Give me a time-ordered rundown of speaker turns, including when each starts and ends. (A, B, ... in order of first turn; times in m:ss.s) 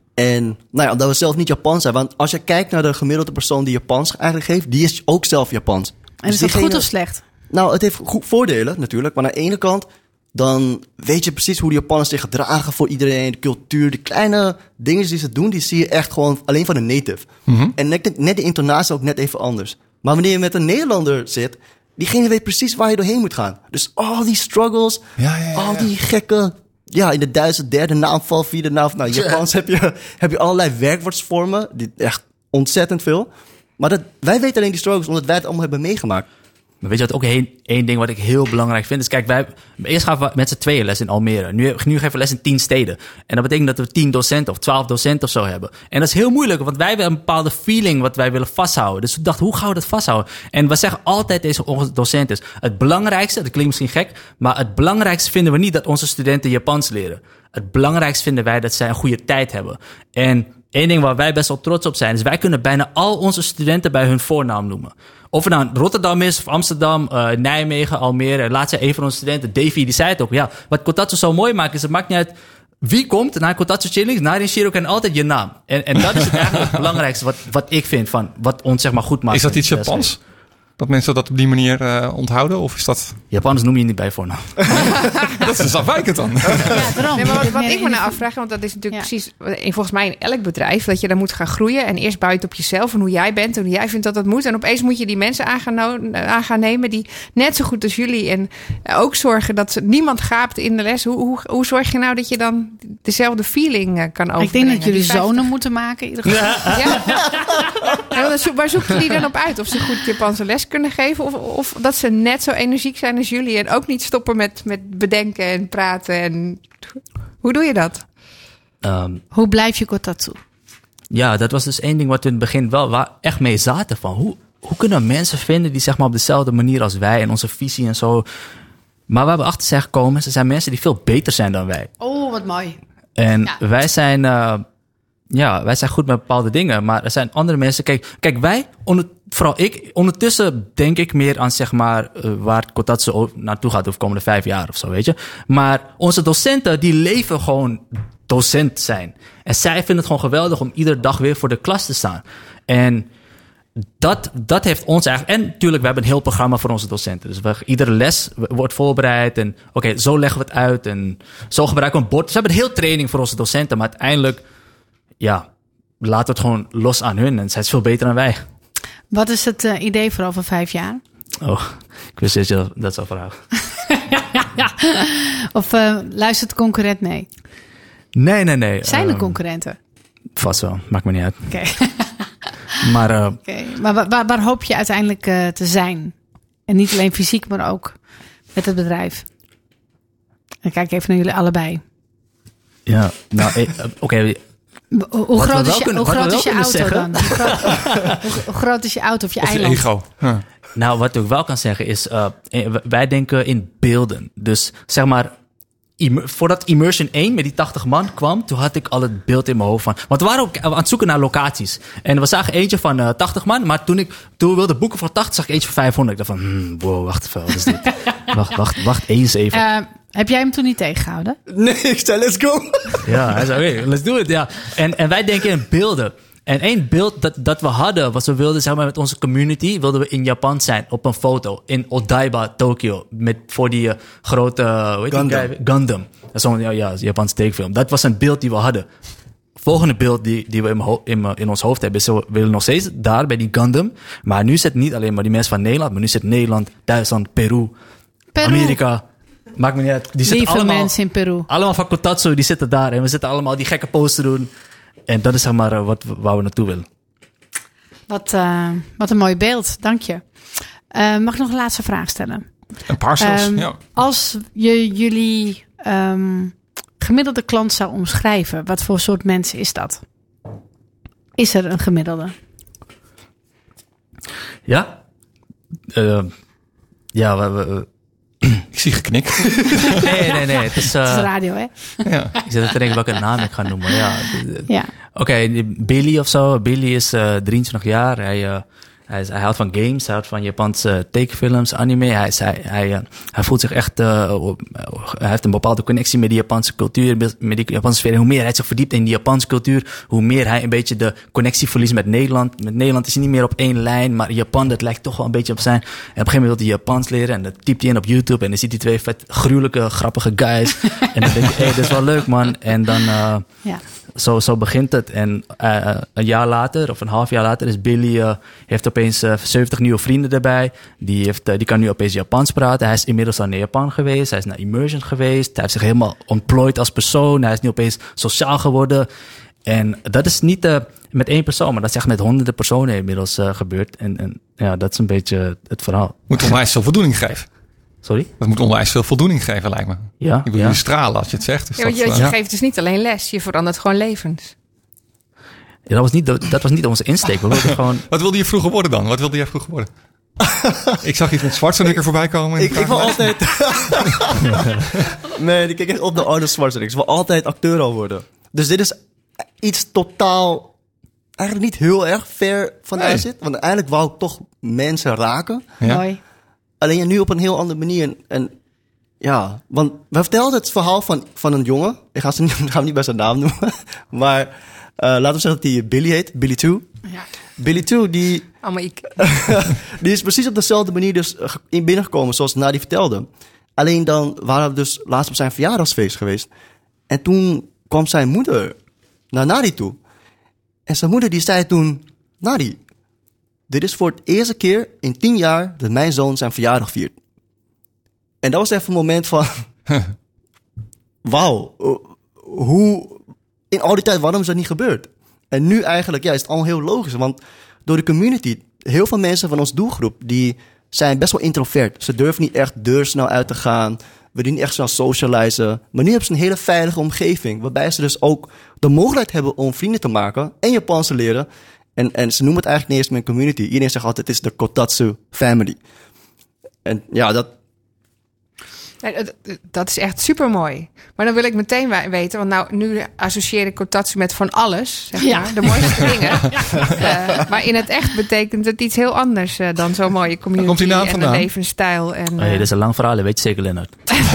0:00.2-0:06.9 A
0:06.2-0:07.2 B
0:07.5-0:36.3 A
0:17.5-0:17.7 C
0:25.2-0:25.9 C
0:36.8-1:20.1 D
1:19.3-1:20.2 C
1:20.8-1:23.2 C
1:23.3-1:24.6 D
1:25.4-1:27.2 C
1:26.7-1:28.2 B
1:27.2-1:45.5 E
1:44.4-1:47.3 B
1:46.3-1:47.2 D
1:46.7-1:47.4 E
1:48.1-1:58.1 E
1:58.8-1:59.2 D
1:59.3-2:00.4 B
2:01.1-2:08.3 D
2:09.1-2:11.9 D
2:12.0-2:12.8 B
2:13.2-2:14.6 D
2:15.3-2:33.1 D
2:34.0-2:44.4 D
2:45.2-2:45.5 D
2:46.0-2:48.4 D
2:49.1-2:51.0 B
2:51.4-2:53.4 D
2:53.9-2:57.3 B
2:58.2-2:59.4 D
2:58.8-2:59.8 B
3:00.4-3:01.5 D
3:01.5-3:02.3 B
3:02.8-3:03.4 D
3:03.4-3:06.2 B
3:06.7-3:08.0 B
3:08.5-3:09.2 B
3:10.6-3:11.8 B
3:12.9-3:14.4 D
3:14.9-3:19.9 B
3:15.4-3:18.2 D
3:19.4-3:20.4 C
3:20.8-3:25.3 D
3:26.0-3:39.6 D
3:39.5-3:41.4 B
3:41.5-3:43.3 A
3:43.0-3:58.9 D
3:55.1-3:55.5 A
3:59.6-4:07.7 D
4:08.4-4:08.8 B
4:08.4-4:09.0 D
4:09.6-4:10.9 D
4:10.2-4:11.5 B
4:11.5-4:14.5 D
4:15.1-4:16.9 D
4:18.1-4:20.4 B
4:20.9-4:22.5 B
4:22.9-4:23.8 C
4:23.2-4:30.0 B
4:31.4-4:32.3 B
4:34.7-4:35.0 D
4:35.9-4:36.3 D
4:37.1-4:37.9 D
4:38.7-4:40.1 C
4:40.0-4:41.3 D
4:40.9-4:42.4 B
4:42.0-4:42.3 C
4:42.4-5:13.5 D
4:43.9-4:44.9 B
5:14.2-5:29.1 D
5:29.7-5:36.3 D
5:36.3-5:37.5 C
5:38.0-5:38.3 D
5:38.4-5:42.4 C
5:40.2-5:40.8 D
5:41.8-5:44.5 E
5:45.9-5:48.0 D
5:48.1-5:49.9 C
5:51.0-5:53.4 C
5:52.6-5:54.6 A
5:55.3-5:59.0 A
5:59.6-6:00.7 A
6:01.4-6:05.8 A
6:05.8-6:06.2 B
6:06.8-6:08.5 A
6:09.2-6:16.9 A
6:17.6-6:18.5 A
6:18.6-6:19.2 E
6:19.2-6:26.5 A
6:27.1-6:28.8 A
6:29.3-6:30.0 A
6:30.9-6:32.8 A
6:33.7-6:37.2 A
6:38.4-6:39.7 A
6:41.2-7:05.8 A
7:06.8-7:07.5 A
7:09.0-7:22.7 E
7:15.2-7:16.6 B
7:20.6-7:21.5 C
7:22.4-7:24.1 D